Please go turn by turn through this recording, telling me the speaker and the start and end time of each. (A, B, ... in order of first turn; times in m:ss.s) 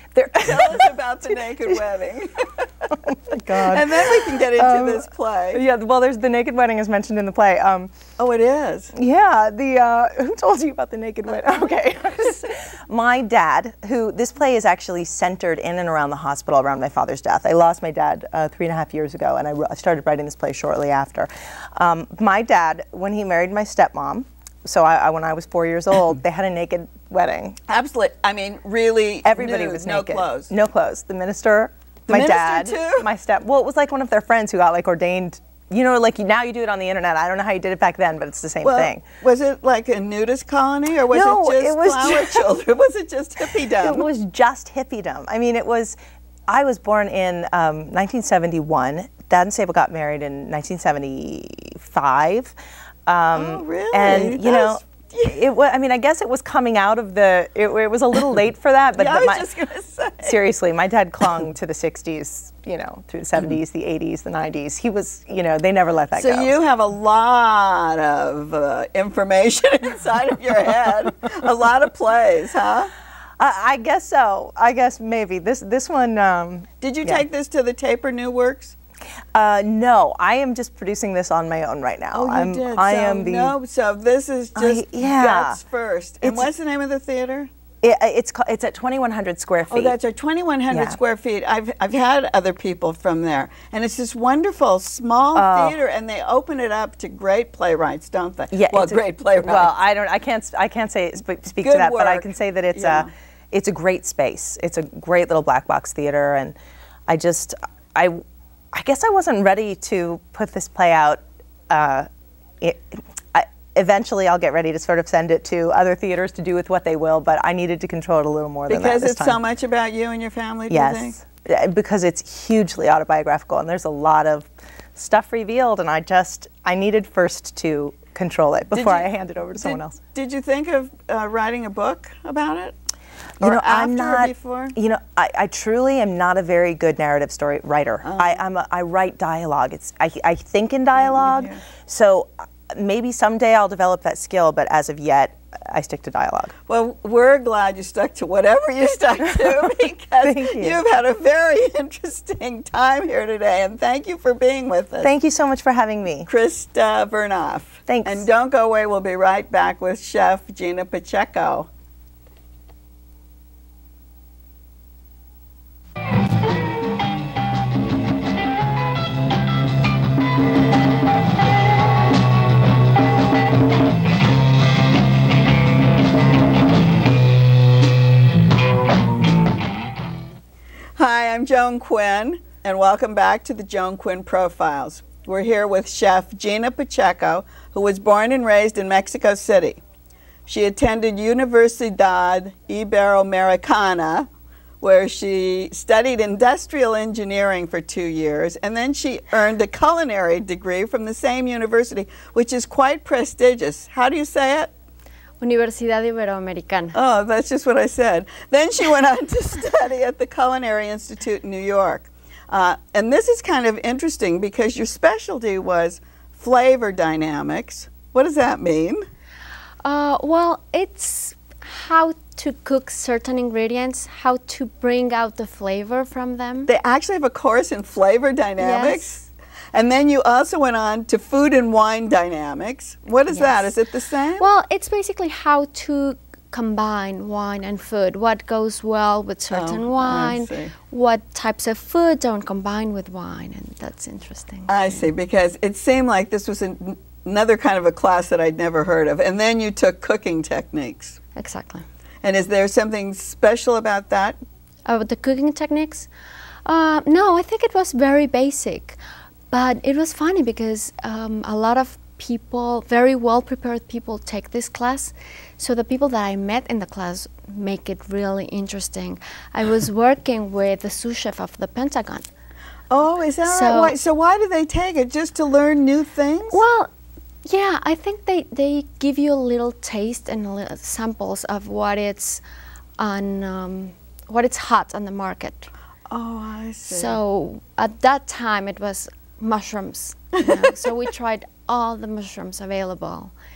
0:00.1-0:00.9 A
0:00.4-0:02.5 B
0:02.9-0:07.9 A
0:03.3-0:05.6 B
0:08.2-0:08.9 B
0:09.0-0:27.6 A
0:27.7-0:30.5 B
0:29.2-0:39.0 A
0:32.1-0:33.1 B
0:38.6-0:44.1 B
0:41.1-0:42.5 A
0:43.8-0:46.0 A
0:46.5-0:52.6 A
0:53.1-0:59.4 A
0:53.3-0:55.4 B
0:59.0-1:00.4 B
1:00.2-1:06.6 A
1:06.2-1:12.9 B
1:13.4-1:17.2 A
1:16.8-1:18.8 B
1:19.3-1:23.6 A
1:22.1-1:27.5 B
1:24.6-1:25.6 A
1:26.2-1:26.5 A
1:27.8-1:30.0 A
1:29.7-1:39.7 B
1:30.7-1:31.0 A
1:35.4-1:35.8 A
1:38.5-1:46.6 A
1:41.6-1:43.1 B
1:47.1-1:48.2 A
1:48.7-1:52.1 A
1:52.6-1:59.4 A
1:58.7-2:01.2 B
2:00.7-2:10.0 A
2:08.7-2:12.8 B
2:13.4-2:14.8 B
2:13.4-2:26.5 A
2:18.0-2:18.4 B
2:21.0-2:21.6 B
2:26.7-2:35.1 B
2:30.2-2:30.8 A
2:35.0-2:36.3 A
2:36.3-2:41.7 B
2:37.9-2:38.3 A
3:01.0-3:09.8 B
3:10.5-3:14.3 B
3:14.8-3:24.7 B
3:25.4-3:27.0 C
3:26.9-3:39.0 B
3:39.8-3:46.7 C
3:46.7-3:54.5 B
3:48.6-3:49.3 C
3:53.3-3:53.7 C
3:54.4-4:05.1 C
3:59.5-4:00.7 B
4:04.7-4:11.2 B
4:11.4-4:11.8 C
4:12.2-4:14.4 B
4:14.9-4:16.1 C
4:16.7-4:19.0 C
4:19.5-4:32.3 C
4:32.9-4:36.6 B
4:33.4-4:34.0 C
4:36.5-4:36.9 C
4:37.5-4:42.4 C
4:43.0-4:45.7 C
4:46.1-4:47.2 B
4:46.9-4:53.3 C